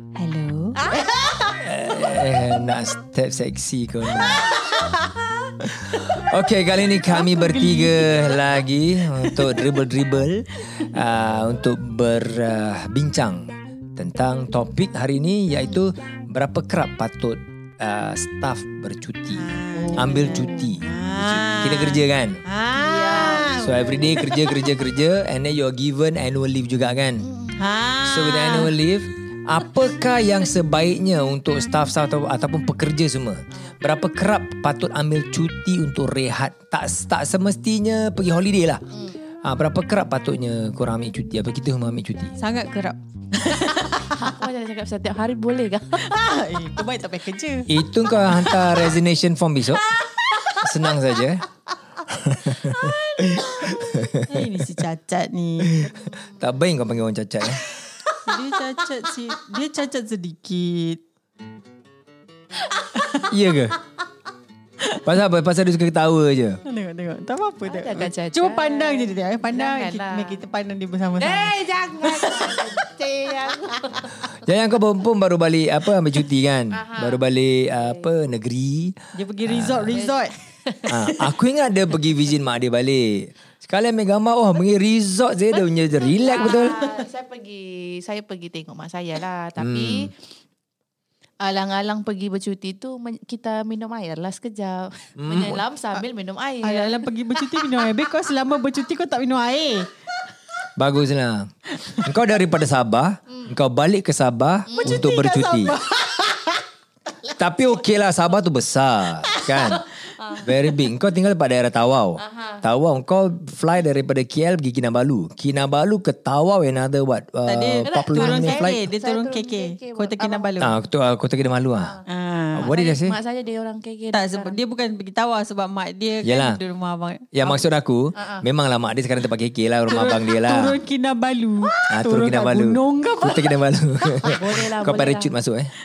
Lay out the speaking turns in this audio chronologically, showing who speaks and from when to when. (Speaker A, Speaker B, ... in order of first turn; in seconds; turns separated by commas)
Speaker A: 0.1-1.4, Speaker B: 1.6-4.5, Speaker A: 4.2-5.2, Speaker B: 5.6-19.4, Speaker A: 7.1-8.4, Speaker A: 9.2-9.6, Speaker A: 19.3-24.6, Speaker C: 19.7-20.7, Speaker B: 19.9-22.4, Speaker C: 22.7-23.5, Speaker B: 23.5-27.3, Speaker C: 27.2-27.6, Speaker A: 27.6-28.7, Speaker B: 28.0-38.8, Speaker B: 39.4-42.3, Speaker A: 42.4-44.3, Speaker C: 43.7-46.1, Speaker A: 46.0-47.7, Speaker B: 47.7-49.9, Speaker A: 48.5-48.8, Speaker A: 50.1-50.6, Speaker B: 50.6-51.5, Speaker B: 52.1-54.8, Speaker A: 52.8-55.8, Speaker B: 55.6-57.6, Speaker C: 55.9-56.4, Speaker A: 58.2-61.0, Speaker A: 62.9-63.3, Speaker B: 63.3-63.8, Speaker B: 65.0-66.6, Speaker A: 66.7-74.1, Speaker C: 67.7-70.4, Speaker C: 71.2-74.1, Speaker B: 74.2-80.0, Speaker C: 76.7-77.2, Speaker A: 79.1-80.3, Speaker C: 79.9-80.9, Speaker B: 80.9-86.7, Speaker C: 85.5-90.1, Speaker A: 86.5-86.9, Speaker B: 89.6-90.1, Speaker C: 91.4-97.9, Speaker B: 95.2-95.6, Speaker A: 96.6-99.9, Speaker B: 100.8-105.8, Speaker A: 101.8-102.0, Speaker C: 104.7-105.0, Speaker A: 104.8-106.6, Speaker B: 107.3-109.9, Speaker A: 109.3-109.7, Speaker C: 110.2-110.4, Speaker B: 110.4-118.8, Speaker C: 112.2-112.6, Speaker A: 117.5-120.7, Speaker C: 117.8-120.6, Speaker B: 120.6-121.9, Speaker A: 122.1-122.7, Speaker B: 122.5-123.2, Speaker C: 122.6-124.6, Speaker A: 124.1-127.6, Speaker B: 126.2-126.6, Speaker B: 127.3-130.8, Speaker C: 128.1-128.4, Speaker A: 129.9-133.5, Speaker B: 131.9-135.7, Speaker C: 134.3-135.3